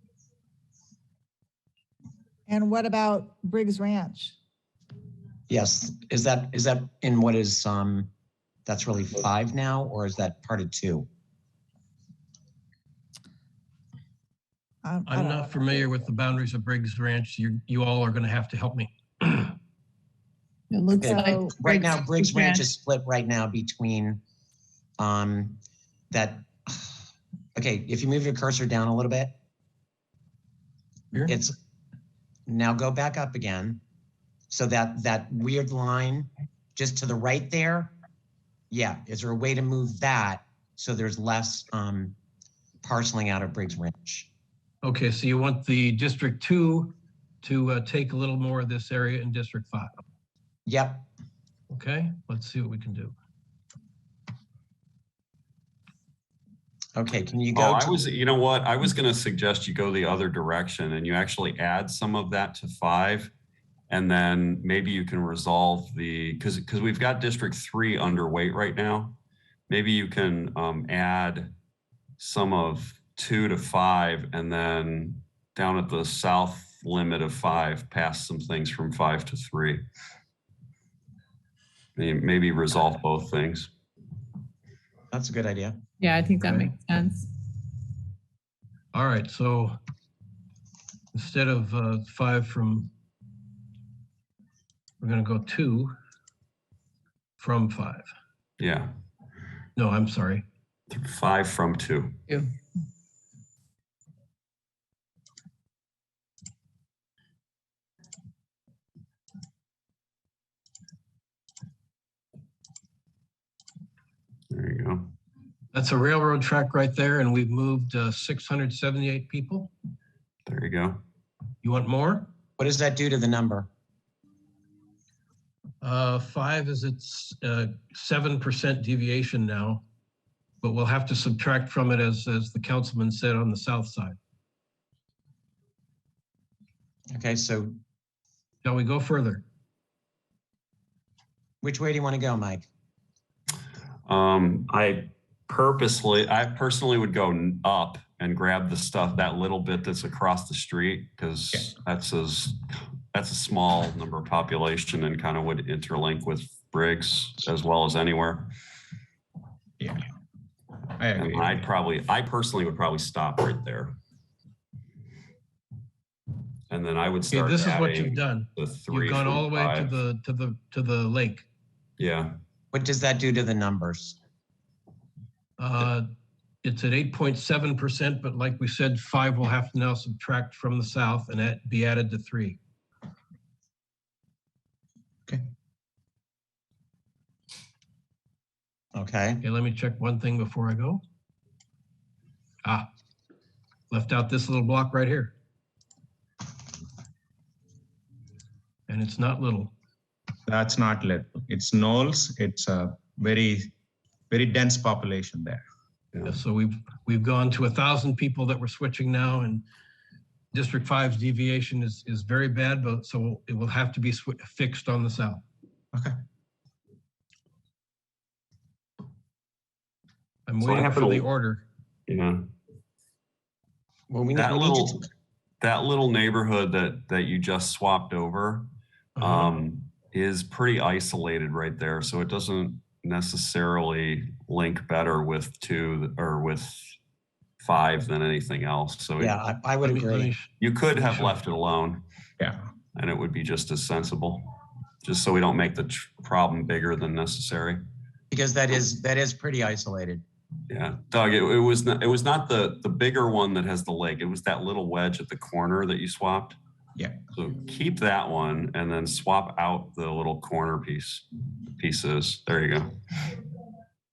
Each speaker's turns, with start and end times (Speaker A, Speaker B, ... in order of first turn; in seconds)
Speaker A: 2.5-4.3, 14.8-16.0, 20.8-21.6
Speaker B: 5.5-8.1, 8.7-11.1, 21.0-24.2, 25.0-25.6, 26.1-26.9, 27.5-29.3, 31.2-31.6, 32.5-33.8, 34.5-37.9, 38.7-42.1, 42.8-44.3, 50.6-51.0, 56.9-58.1, 85.1-85.8, 122.6-123.7, 137.1-137.7, 141.6-142.7, 172.7-174.2, 188.9-189.4, 224.1-225.0, 239.2-240.3, 248.3-250.2
Speaker C: 15.1-19.6, 44.8-50.0, 51.7-53.1, 88.9-89.8, 91.1-92.9, 95.0-95.9, 97.4-98.1, 99.8-100.4, 115.7-119.7, 121.6-122.3, 125.8-129.8, 130.6-134.2, 138.6-139.4, 167.3-171.4, 175.6-176.1, 176.6-182.6, 189.4-191.0, 193.9-195.3, 198.9-199.7, 206.2-209.6, 210.5-215.4, 220.4-221.6, 229.2-229.5, 239.8-241.3
Speaker D: 20.7-22.7, 86.0-87.3
Speaker E: 57.5-63.3, 63.9-69.1, 69.7-71.5, 72.2-79.8, 82.0-83.7, 98.6-98.9, 100.9-102.2, 114.5-115.1, 120.5-121.0, 144.1-158.5, 161.1-163.9, 166.7-169.9, 172.0-172.3, 220.6-221.3, 222.1-222.5, 224.3-225.0, 225.6-228.7, 229.2-236.8, 237.6-239.4, 240.6-242.0, 242.9-244.5, 245.0-247.8, 250.7-256.6, 257.3-261.2, 261.8-263.0
Speaker F: 159.8-160.0, 160.9-161.6, 200.5-203.7, 204.3-205.6, 256.9-257.2